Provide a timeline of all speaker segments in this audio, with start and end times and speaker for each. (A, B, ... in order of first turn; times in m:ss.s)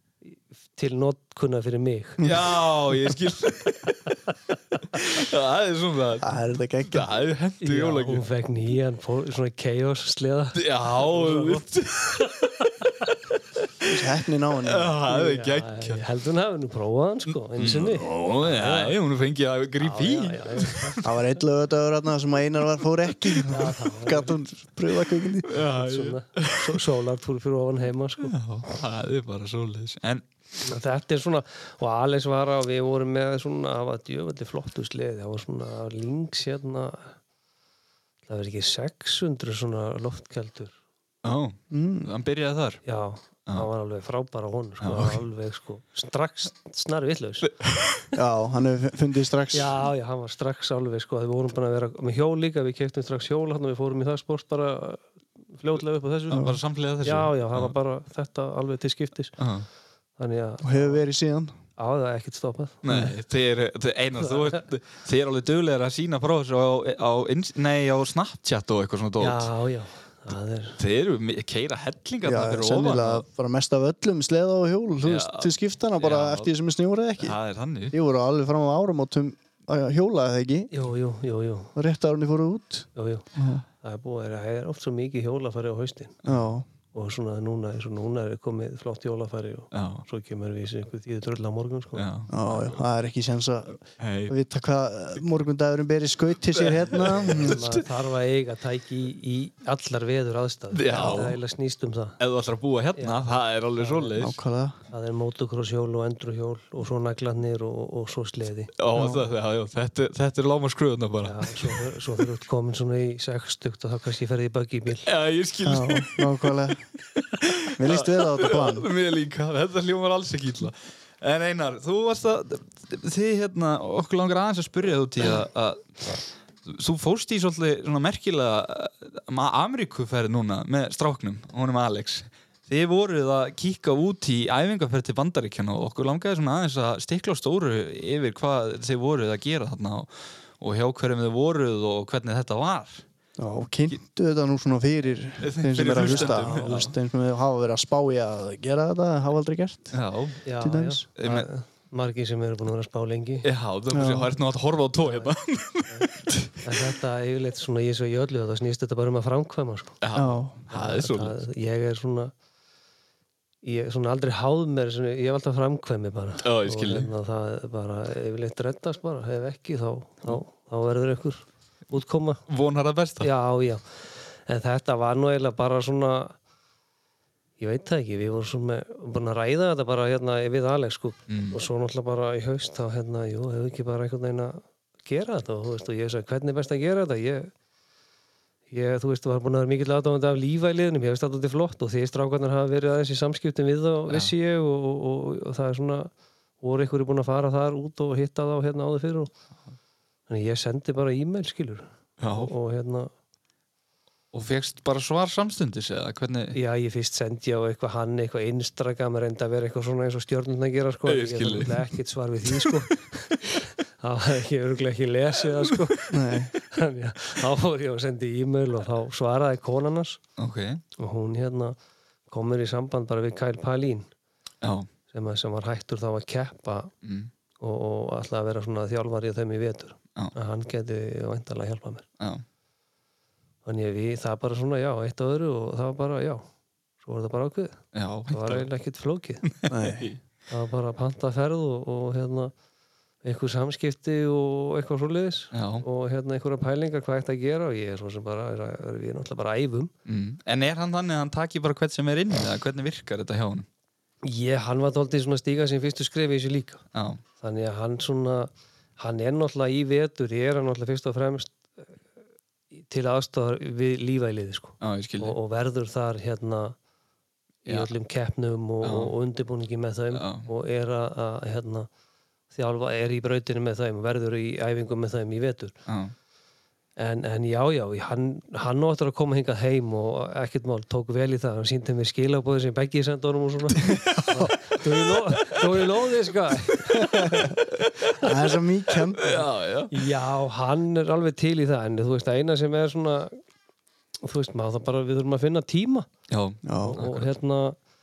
0:00.2-0:02.2 A
0:02.2-0:02.5 B
0:02.2-0:04.0 C
0:04.9-0:08.2 C
0:06.2-0:07.1 B
0:07.6-0:13.0 A
0:10.5-0:12.5 C
0:13.8-0:15.0 B
0:14.6-0:16.0 C
0:15.0-0:19.0 A
0:17.6-0:21.1 C
0:19.8-0:21.2 A
0:21.0-0:25.6 B
0:23.5-0:24.4 A
0:25.5-0:26.8 C
0:25.5-0:28.3 A
0:28.2-0:30.2 C
0:30.6-0:37.1 A
0:38.2-0:40.7 A
0:41.2-0:42.8 C
0:41.7-0:42.1 B
0:42.8-0:47.5 A
0:44.8-0:45.2 C
0:47.4-0:48.2 C
0:48.1-0:49.8 B
0:49.5-0:59.4 A
0:56.3-0:57.7 C
0:59.4-0:59.6 C
1:00.2-1:01.0 A
1:00.6-1:01.5 B
1:01.8-1:02.8 A
1:02.8-1:09.5 C
1:09.2-1:10.8 A
1:10.8-1:13.2 C
1:12.2-1:17.4 B
1:15.0-1:16.5 C
1:17.2-1:17.9 C
1:17.9-1:20.7 B
1:20.7-1:21.7 A
1:21.8-1:23.6 B
1:23.0-1:23.2 A
1:23.8-1:26.2 A
1:26.2-1:26.7 B
1:26.9-1:32.1 A
1:29.7-1:30.0 C
1:31.9-1:32.8 C
1:32.3-1:37.7 B
1:34.0-1:34.3 C
1:36.5-1:37.8 C
1:37.4-1:42.2 A
1:40.7-1:41.4 C
1:42.2-1:44.4 C
1:42.9-1:44.2 A
1:44.2-1:44.8 B
1:44.9-1:48.7 A
1:48.8-1:51.8 C
1:48.9-1:49.2 B
1:51.2-1:55.1 A
1:55.0-1:56.5 C
1:55.6-1:56.8 B
1:57.1-2:23.0 C
1:57.8-1:58.9 B
2:23.4-2:30.0 B
2:25.4-2:26.9 C
2:26.0-2:26.9 A
2:29.9-2:30.4 C
2:30.4-2:33.5 A
2:30.6-2:31.0 B
2:31.2-2:31.5 C
2:33.4-2:36.7 C
2:33.9-2:34.3 B
2:35.0-2:35.3 A
2:36.6-2:40.0 A
2:40.0-2:41.4 C
2:40.1-2:40.6 B
2:40.7-2:42.3 A
2:43.6-2:52.4 A
2:46.4-2:47.1 C
2:52.5-2:53.3 C
2:53.2-2:56.4 A
2:57.6-3:07.5 A
3:01.3-3:01.6 C
3:08.7-3:19.3 A
3:20.3-3:23.1 A
3:22.2-3:22.5 C
3:24.3-3:26.6 C
3:26.5-3:40.2 A
3:31.1-3:31.9 C
3:36.1-3:36.5 B
3:40.4-3:40.8 C
3:41.0-3:41.8 A
3:42.3-3:44.1 A
3:44.6-3:44.9 C
3:45.1-3:46.9 A
3:47.0-3:47.3 C
3:47.6-3:52.0 A
3:52.2-3:52.4 C
3:53.6-3:56.4 A
3:57.0-3:59.4 A
3:57.9-3:58.7 C
3:59.4-4:00.2 C
3:59.7-4:00.1 B
4:00.5-4:02.5 A
4:03.2-4:09.9 A
4:05.5-4:05.8 C
4:10.0-4:13.7 C
4:14.2-4:16.8 A
4:16.9-4:17.2 C
4:17.4-4:21.9 A
4:22.7-4:26.8 A
4:24.8-4:25.4 C
4:27.6-4:31.9 A
4:27.6-4:27.9 C
4:28.8-4:29.1 C
4:30.1-4:30.5 C
4:32.5-4:35.7 A
4:35.8-4:36.1 C
4:37.0-4:47.5 A
4:43.8-4:44.5 B
4:47.0-4:47.6 B
4:47.8-4:48.1 C
4:48.2-4:49.4 B
4:49.0-4:49.9 C
4:49.9-4:53.4 A
4:54.2-4:56.1 A
4:56.3-4:57.3 C
4:56.6-4:57.0 B
4:56.8-4:57.8 A